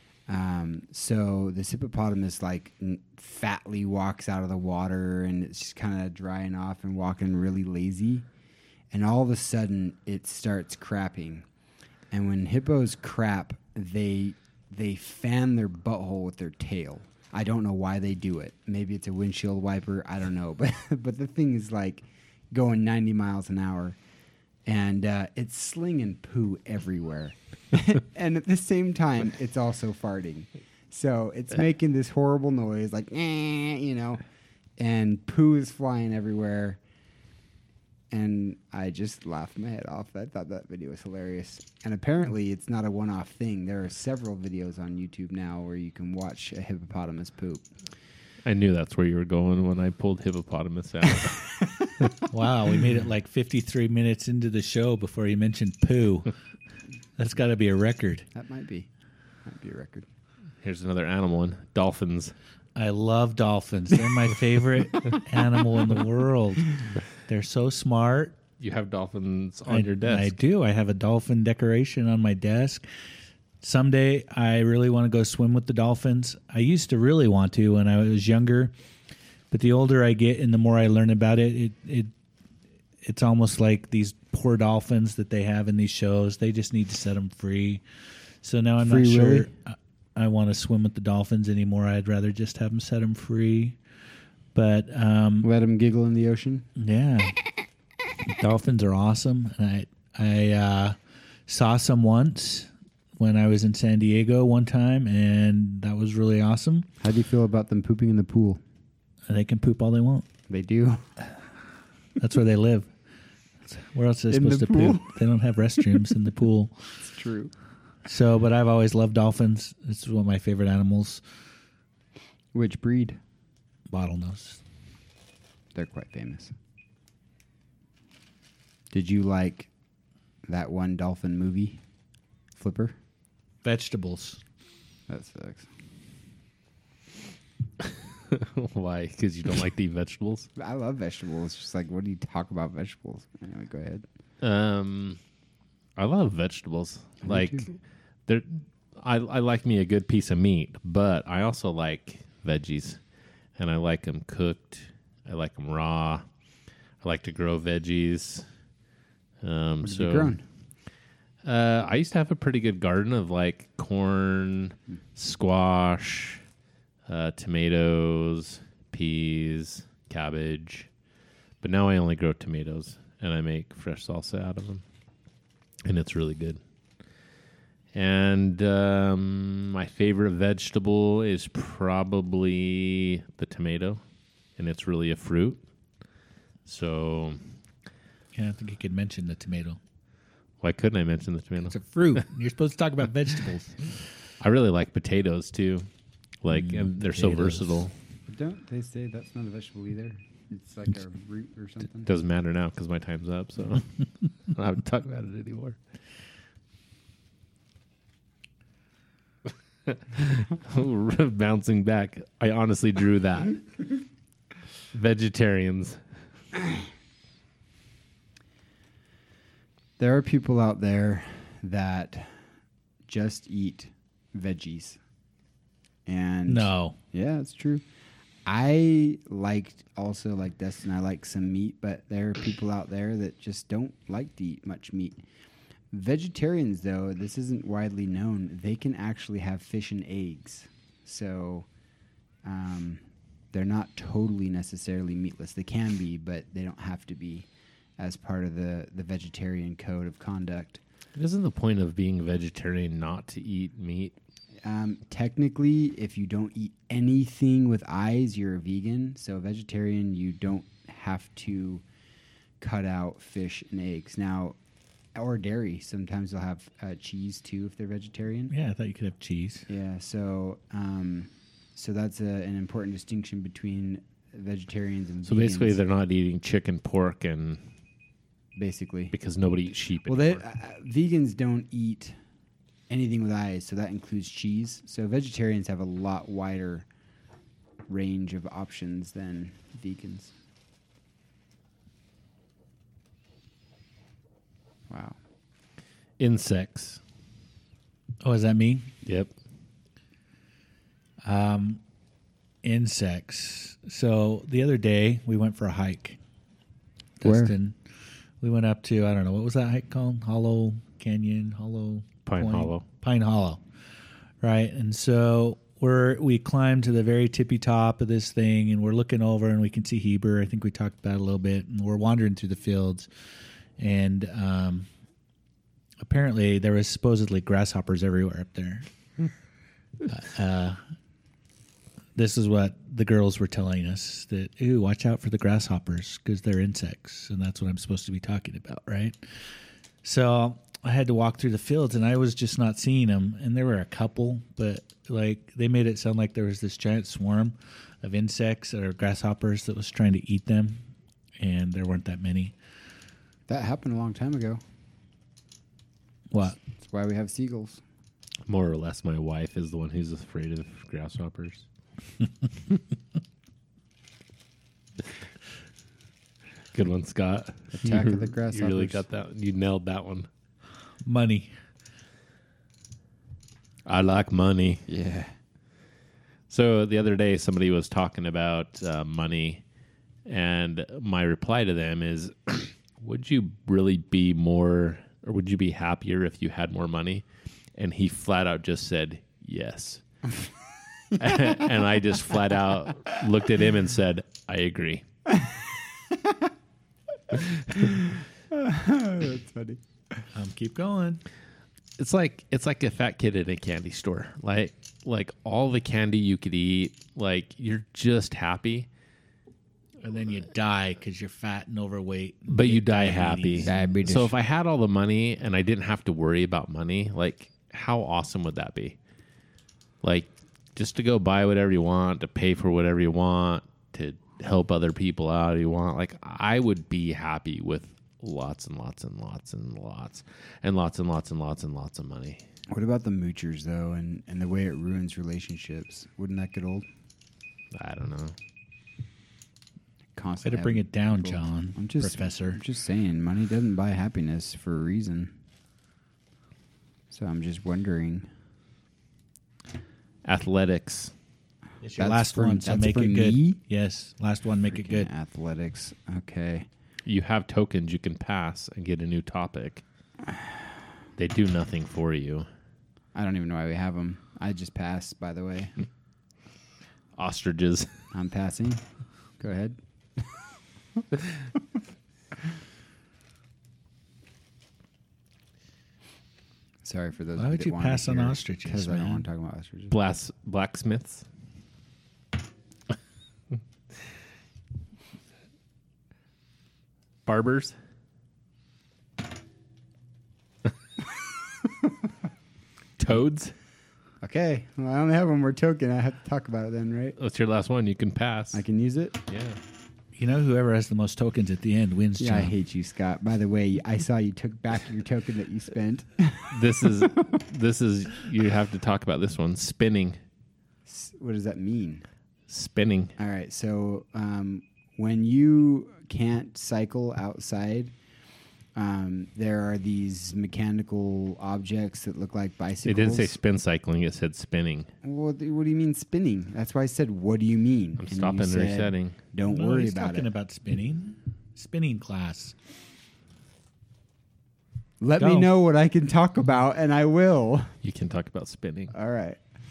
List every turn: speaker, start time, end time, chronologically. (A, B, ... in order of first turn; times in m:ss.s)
0:00.3-0:08.3 A
0:08.9-0:11.5 A
0:12.1-0:24.0 A
0:24.7-0:34.2 A
0:34.8-0:36.8 A
0:38.1-0:47.7 A
0:48.4-0:51.5 B
0:52.3-0:56.3 C
0:57.2-0:58.3 C
0:58.3-0:58.9 A
0:59.4-1:00.1 A
1:00.6-1:02.3 B
1:02.8-1:08.4 C
1:08.6-1:10.3 B
1:09.7-1:12.8 C
1:13.6-1:18.7 C
1:19.5-1:22.1 C
1:23.0-1:27.8 C
1:28.4-1:33.8 C
1:28.8-1:29.5 A
1:34.5-1:35.5 C
1:35.4-1:36.7 A
1:36.8-1:37.4 C
1:38.3-1:41.0 C
1:41.5-1:46.9 C
1:47.0-1:48.6 A
1:49.3-1:50.3 C
1:50.5-1:51.0 A
1:52.2-1:52.9 C
1:53.6-1:56.8 C
1:54.3-1:55.2 A
1:57.0-1:57.5 A
1:58.0-2:01.2 C
2:02.5-2:03.2 A
2:03.9-2:04.6 C
2:05.8-2:06.5 A
2:08.9-2:09.7 A
2:10.5-2:11.8 A
2:12.6-2:13.0 A
2:13.6-2:14.4 C
2:15.1-2:15.7 A
2:17.8-2:20.5 B
2:20.6-2:24.0 A
2:24.4-2:25.2 B
2:26.0-2:33.0 B
2:27.2-2:27.7 A
2:33.6-2:36.2 B
2:37.0-2:38.5 B
2:39.4-2:40.4 B
2:39.8-2:40.4 A
2:41.4-2:46.4 B
2:47.1-2:50.9 B
2:51.6-2:54.8 B
2:55.8-2:56.6 B
2:57.9-3:04.0 B
3:04.6-3:05.6 B
3:06.7-3:07.4 B
3:08.4-3:09.8 C
3:10.6-3:11.8 B
3:11.6-3:13.8 C
3:14.4-3:15.9 B
3:16.4-3:17.9 B
3:16.5-3:17.8 C
3:18.3-3:22.1 A
3:22.1-3:23.9 B
3:24.5-3:25.8 B
3:29.9-3:33.6 B
3:34.9-3:36.0 B
3:40.0-3:42.4 A
3:43.1-3:45.0 A
3:46.1-3:47.8 A
3:46.5-3:47.0 C
3:48.4-3:55.2 A
3:55.9-4:01.7 A
4:02.4-4:03.0 A
4:03.5-4:07.5 A
4:08.0-4:10.8 A
4:11.2-4:14.1 B
4:14.6-4:21.8 A
4:22.6-4:24.6 A
4:25.2-4:28.5 A
4:28.5-4:29.7 C
4:29.7-4:35.8 A
4:35.3-4:37.6 B
4:38.6-4:39.1 A
4:39.1-4:40.4 B
4:40.1-4:42.2 A
4:42.9-4:46.9 A
4:47.9-4:50.3 A
4:54.9-4:55.2 A
4:56.2-4:57.0 B
4:58.2-4:58.9 C
4:59.0-4:59.3 B
5:01.2-5:01.8 C
5:02.6-5:06.2 C
5:07.2-5:07.8 C
5:07.2-5:07.5 A
5:08.4-5:13.6 C
5:12.3-5:12.8 B
5:14.4-5:23.1 C
5:23.8-5:24.9 C
5:26.0-5:28.9 C
5:30.0-5:30.8 C
5:32.2-5:39.2 C
5:40.0-5:50.8 C
5:51.4-5:52.5 C
5:53.5-5:54.6 A
5:56.3-5:56.6 C
5:56.6-5:57.8 A
5:58.5-6:01.7 B
6:06.7-6:10.3 B
6:07.7-6:09.0 A
6:11.0-6:11.5 C
6:13.9-6:14.8 B
6:14.9-6:15.3 A
6:16.5-6:19.6 B
6:20.3-6:27.2 B
6:27.8-6:30.0 B
6:31.2-6:35.0 B
6:37.3-6:39.8 A
6:40.3-6:41.2 C
6:42.0-6:48.9 B
6:50.0-6:53.9 C
6:52.5-6:59.0 B
6:53.6-6:54.3 A
7:00.0-7:12.4 B
7:12.7-7:16.9 A
7:17.7-7:18.4 B
7:20.2-7:25.3 A
7:20.4-7:22.6 C
7:27.1-7:28.3 A
7:30.2-7:31.1 B
7:31.8-7:35.1 C
7:32.0-7:33.6 A
7:34.7-7:36.7 A
7:37.0-7:39.8 B
7:41.2-7:42.5 B
7:43.2-7:45.8 A
7:47.2-7:47.9 B
7:48.1-7:48.8 A
7:49.4-7:49.8 A
7:56.8-8:00.0 A
7:57.4-7:59.2 C
7:59.9-8:01.2 B
8:07.3-8:07.7 B
8:13.0-8:13.5 B
8:14.2-8:17.2 A
8:17.2-8:18.6 B
8:18.5-8:19.2 A
8:19.3-8:19.6 B
8:20.2-8:22.5 C
8:22.2-8:26.5 A
8:26.5-8:30.2 B
8:30.9-8:32.0 A
8:32.5-8:33.2 B
8:33.2-8:37.9 A
8:38.8-8:43.4 A
8:42.8-8:44.9 B
8:45.0-8:50.3 A
8:48.0-8:49.2 B
8:49.4-8:52.6 C
8:55.0-8:57.8 A
8:55.2-8:55.5 C
8:57.8-8:58.9 B
8:58.9-8:59.4 A